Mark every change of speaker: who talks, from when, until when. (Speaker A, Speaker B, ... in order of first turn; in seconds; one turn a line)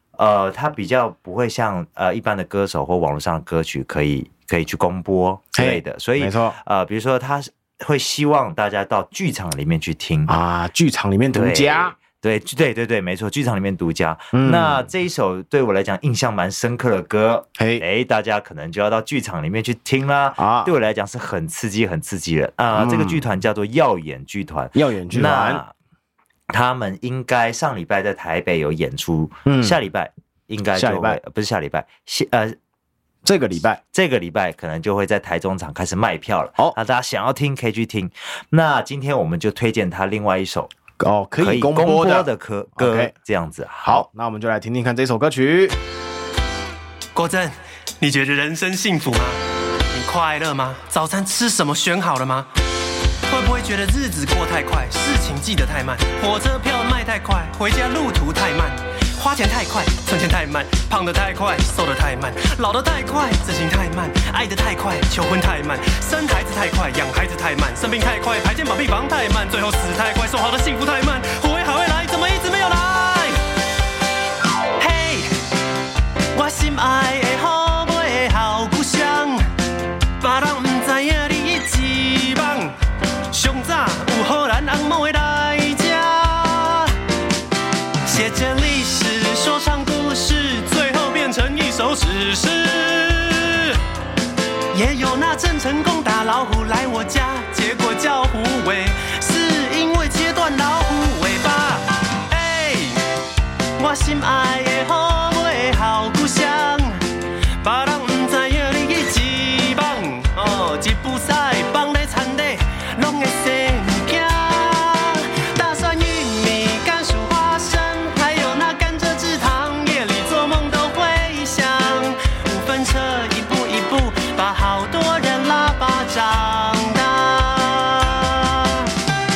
Speaker A: 0.1-10.3
Speaker B: 5.5-6.5
Speaker B: 10.3-12.0
Speaker A: 11.3-25.7
Speaker B: 14.3-14.8
Speaker B: 17.6-17.8
Speaker B: 20.4-20.7
Speaker B: 22.7-23.2
Speaker B: 24.7-25.6
Speaker A: 26.5-32.6
Speaker B: 29.4-29.8
Speaker B: 30.7-31.2
Speaker B: 33.2-33.8
Speaker A: 33.9-40.7
Speaker B: 41.0-43.1
Speaker A: 41.4-44.0
Speaker B: 43.8-45.8
Speaker C: 47.1-52.5
Speaker C: 53.3-73.4
Speaker C: 74.8-75.3
Speaker C: 76.3-79.5
Speaker C: 80.2-82.8
Speaker C: 83.3-86.9
Speaker C: 88.0-93.8
Speaker C: 94.7-103.0
Speaker C: 103.8-107.0
Speaker C: 107.6-128.9